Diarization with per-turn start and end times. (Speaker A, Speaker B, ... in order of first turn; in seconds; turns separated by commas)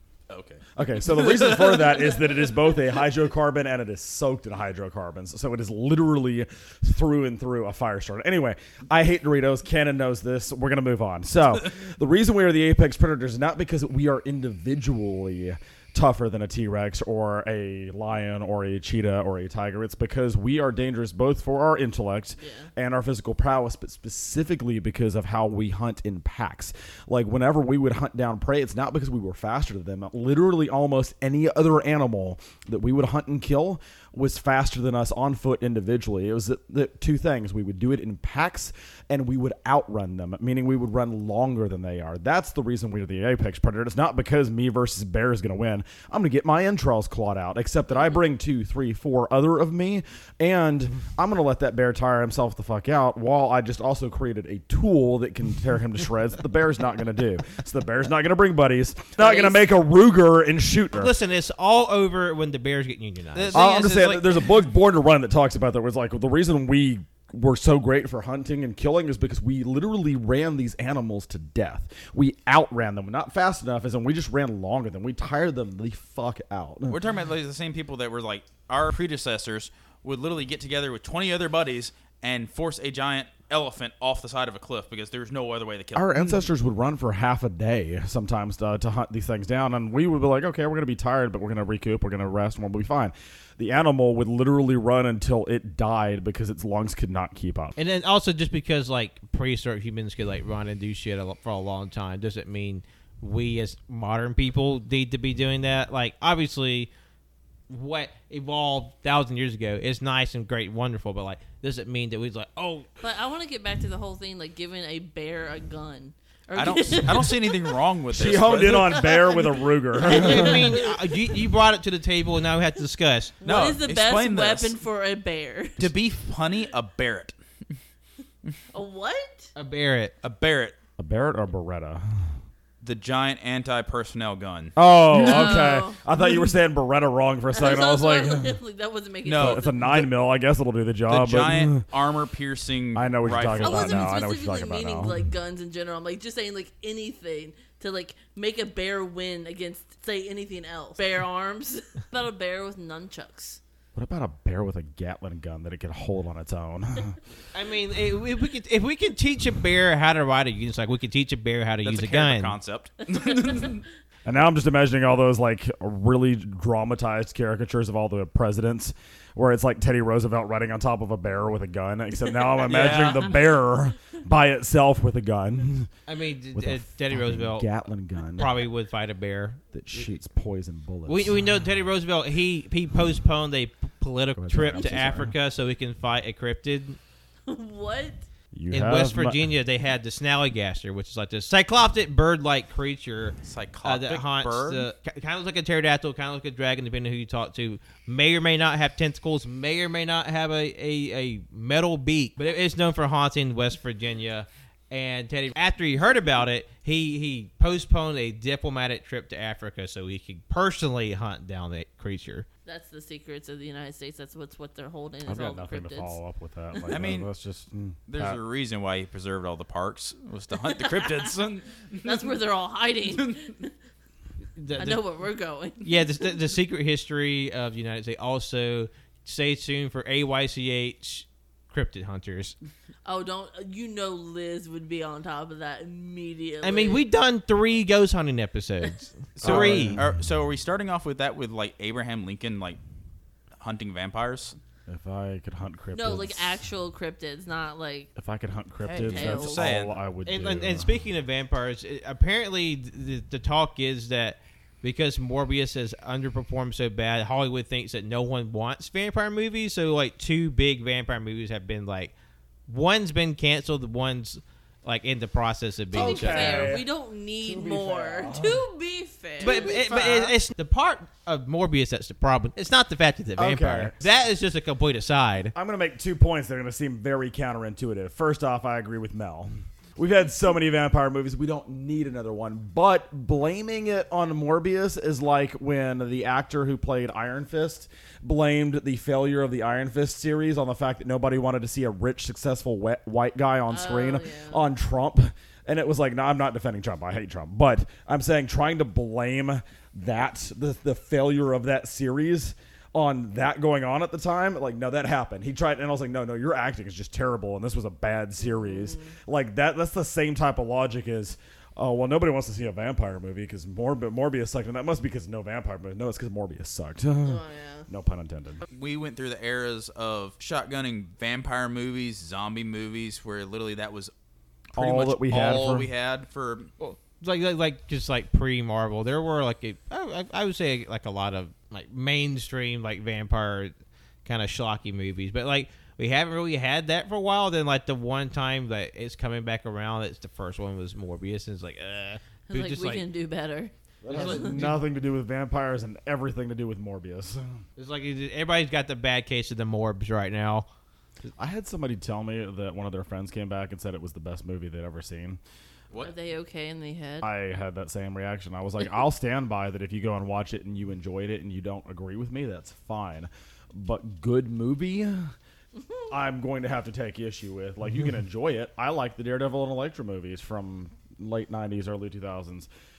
Speaker A: 0.3-1.9, Speaker B: 0.8-61.1, Speaker C: 22.4-22.7, Speaker C: 59.2-59.5, Speaker D: 60.9-63.6, Speaker A: 63.3-64.3, Speaker B: 63.5-77.0, Speaker A: 76.9-86.2, Speaker B: 85.9-97.8, Speaker D: 97.8-106.9, Speaker D: 107.7-112.9, Speaker C: 113.0-117.8, Speaker A: 116.5-119.1, Speaker B: 118.1-120.8, Speaker C: 118.7-121.4, Speaker D: 120.0-123.3, Speaker C: 123.4-125.9, Speaker A: 123.4-124.7, Speaker A: 125.8-127.3, Speaker C: 128.7-129.5, Speaker D: 129.6-130.1, Speaker A: 130.2-130.7, Speaker B: 131.0-132.3, Speaker A: 132.8-134.7, Speaker B: 134.8-138.6, Speaker C: 135.1-136.3, Speaker C: 137.5-139.9, Speaker A: 139.2-140.1, Speaker B: 139.3-141.8, Speaker A: 141.1-144.1, Speaker B: 142.9-145.2, Speaker C: 143.6-153.6, Speaker B: 153.9-157.2, Speaker D: 157.5-162.6, Speaker A: 161.8-163.8, Speaker B: 164.2-175.9, Speaker A: 172.6-173.4, Speaker D: 176.1-177.7, Speaker B: 176.5-178.6, Speaker D: 178.4-180.1, Speaker B: 179.7-181.4, Speaker D: 181.1-187.0, Speaker B: 184.3-185.3, Speaker C: 187.5-188.2, Speaker B: 188.5-189.5, Speaker D: 188.7-212.4, Speaker A: 193.4-194.8, Speaker C: 212.7-216.2, Speaker B: 215.2-218.4, Speaker A: 216.9-217.3, Speaker A: 218.1-222.3, Speaker C: 220.7-221.3, Speaker C: 222.0-223.7, Speaker A: 223.1-223.5, Speaker D: 224.6-225.0, Speaker C: 224.8-226.0, Speaker D: 225.8-232.6, Speaker C: 233.0-237.0, Speaker D: 236.6-240.0, Speaker A: 239.4-242.8, Speaker B: 239.4-240.1, Speaker A: 243.6-244.6, Speaker B: 244.9-246.6, Speaker C: 245.9-248.1, Speaker B: 248.2-250.9, Speaker C: 248.8-249.7, Speaker A: 249.1-249.9, Speaker D: 250.2-262.1, Speaker D: 262.7-266.8, Speaker B: 265.9-266.9, Speaker C: 265.9-270.4, Speaker B: 267.4-268.6, Speaker D: 269.4-275.5, Speaker B: 273.4-274.0, Speaker B: 275.5-318.6, Speaker C: 293.7-294.6, Speaker C: 308.5-309.1, Speaker C: 317.2-317.9, Speaker A: 318.7-324.1, Speaker A: 324.7-326.7, Speaker B: 324.7-325.9, Speaker D: 326.8-333.7, Speaker D: 334.2-343.0, Speaker C: 342.5-344.4, Speaker B: 344.0-347.6, Speaker D: 344.1-344.8, Speaker D: 347.8-350.7, Speaker B: 351.4-355.4, Speaker C: 356.0-357.3, Speaker B: 357.2-365.3, Speaker B: 366.1-372.7